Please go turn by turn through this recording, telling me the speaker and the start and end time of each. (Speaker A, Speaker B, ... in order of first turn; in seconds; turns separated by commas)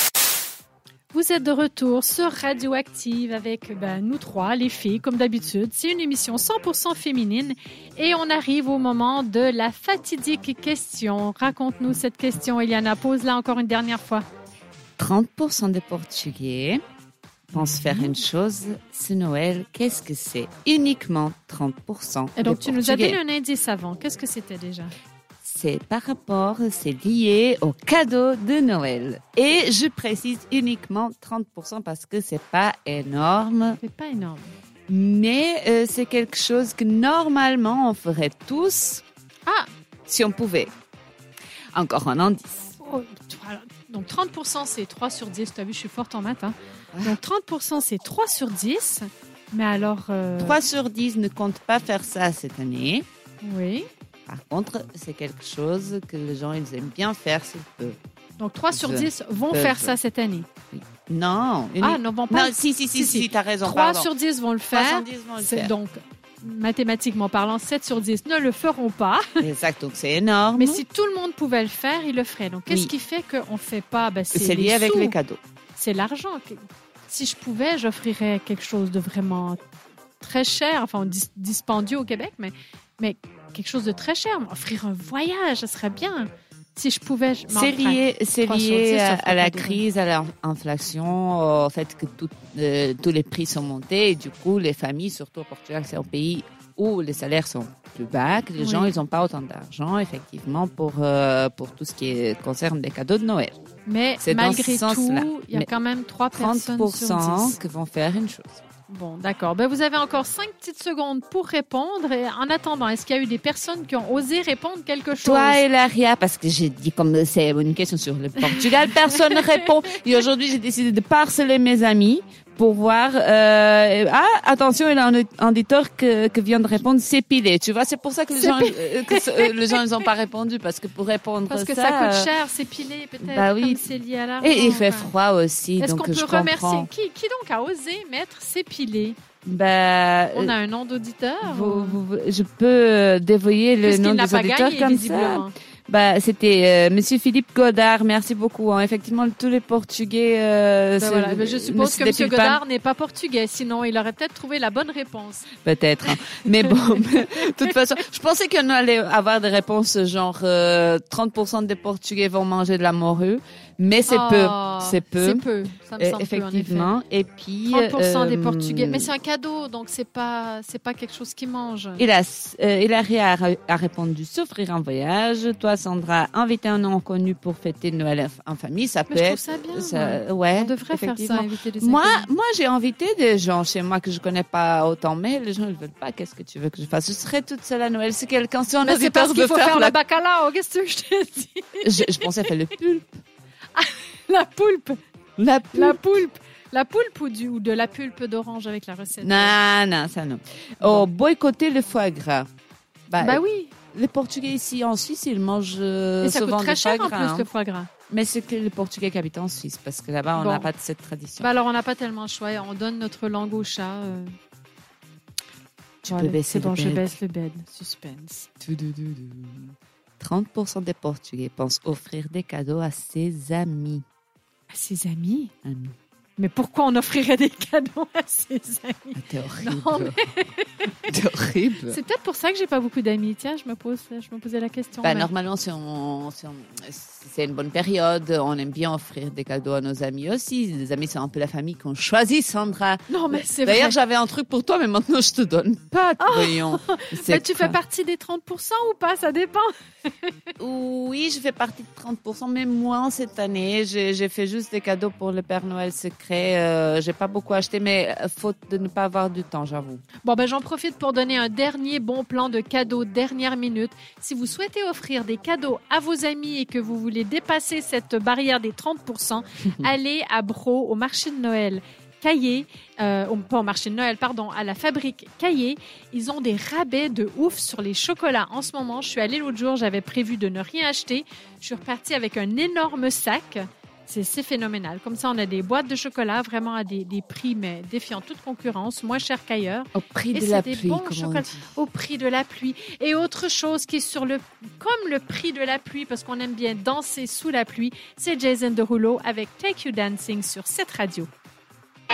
Speaker A: 1.1-14.2, Speaker B: 15.0-16.8, Speaker B: 17.5-23.2, Speaker A: 17.6-18.2, Speaker A: 22.4-24.9, Speaker B: 25.4-33.8, Speaker A: 33.8-34.5, Speaker B: 34.9-39.0, Speaker B: 40.1-40.7, Speaker B: 41.7-42.7, Speaker A: 42.8-50.6, Speaker B: 50.4-53.0, Speaker A: 53.4-53.9, Speaker B: 54.3-58.0, Speaker A: 58.4-60.5, Speaker B: 58.7-60.0, Speaker B: 60.7-64.1, Speaker A: 61.8-69.4, Speaker B: 64.7-65.7, Speaker B: 69.4-70.8, Speaker A: 70.5-75.2, Speaker B: 74.3-75.4, Speaker A: 75.8-79.6, Speaker A: 80.2-89.8, Speaker B: 87.5-103.6, Speaker A: 98.6-99.0, Speaker A: 103.8-107.6, Speaker B: 104.2-105.7, Speaker B: 106.3-108.6, Speaker A: 108.9-115.6, Speaker B: 115.1-132.3, Speaker A: 128.4-129.9, Speaker A: 131.5-135.1, Speaker B: 133.2-133.8, Speaker B: 134.4-136.9, Speaker A: 135.8-139.2, Speaker B: 139.4-140.5, Speaker A: 140.3-142.0, Speaker B: 141.4-152.6, Speaker A: 143.8-145.5, Speaker A: 151.0-155.5, Speaker B: 155.6-165.4, Speaker A: 156.2-157.7, Speaker A: 164.1-166.9, Speaker B: 166.0-169.1, Speaker A: 167.7-172.0, Speaker B: 172.0-190.0, Speaker A: 179.1-182.3, Speaker A: 188.8-192.5, Speaker B: 191.8-193.2, Speaker A: 193.8-195.0, Speaker B: 195.4-196.0, Speaker A: 195.7-199.6, Speaker B: 199.2-202.5, Speaker A: 200.8-201.1, Speaker B: 203.1-203.4, Speaker A: 203.2-203.7, Speaker B: 203.9-207.5, Speaker A: 206.2-207.9, Speaker B: 208.1-211.5, Speaker A: 210.4-210.7, Speaker A: 211.4-214.3, Speaker B: 216.0-217.1, Speaker A: 216.1-218.5, Speaker B: 218.6-224.0, Speaker A: 224.7-225.5, Speaker B: 225.6-225.9, Speaker A: 226.4-230.9, Speaker B: 229.2-230.3, Speaker B: 231.1-232.0, Speaker A: 231.9-235.3, Speaker B: 235.0-247.8, Speaker A: 243.1-244.0, Speaker A: 246.2-250.3, Speaker B: 250.6-260.0, Speaker A: 260.2-301.3, Speaker B: 289.9-291.7